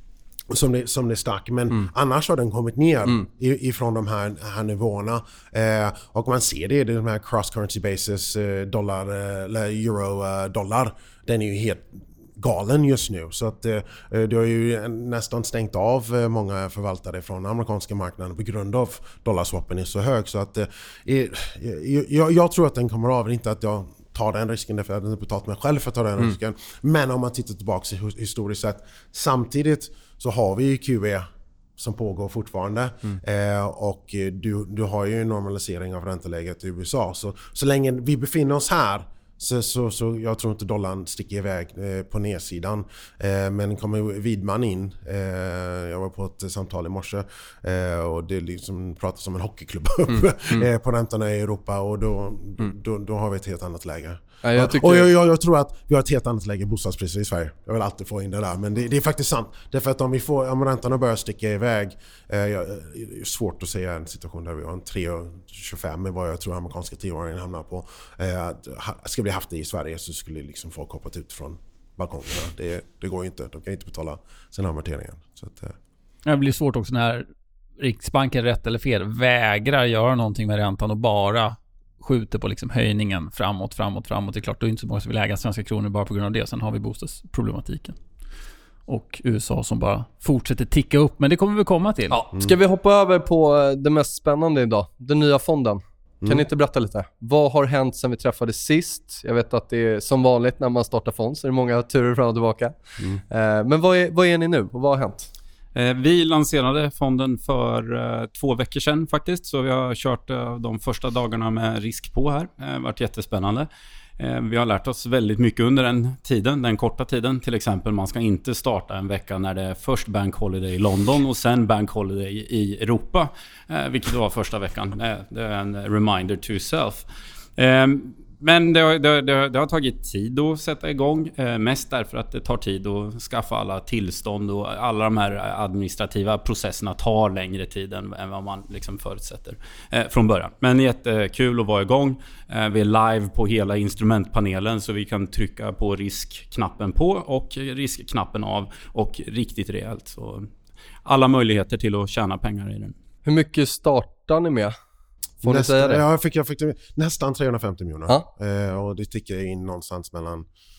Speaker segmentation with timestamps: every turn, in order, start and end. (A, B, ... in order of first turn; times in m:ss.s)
0:00.5-1:15.8 A
0:54.4-0:55.1 B
1:16.2-1:17.3 C
1:17.8-1:28.0 C
1:28.9-1:32.2 C
1:32.1-1:45.3 B
1:45.7-1:53.7 D
1:54.2-2:07.0 D
2:07.6-2:30.5 D
2:31.0-2:32.9 D
2:33.2-2:34.7 B
2:35.4-2:40.5 A
2:35.4-2:36.0 B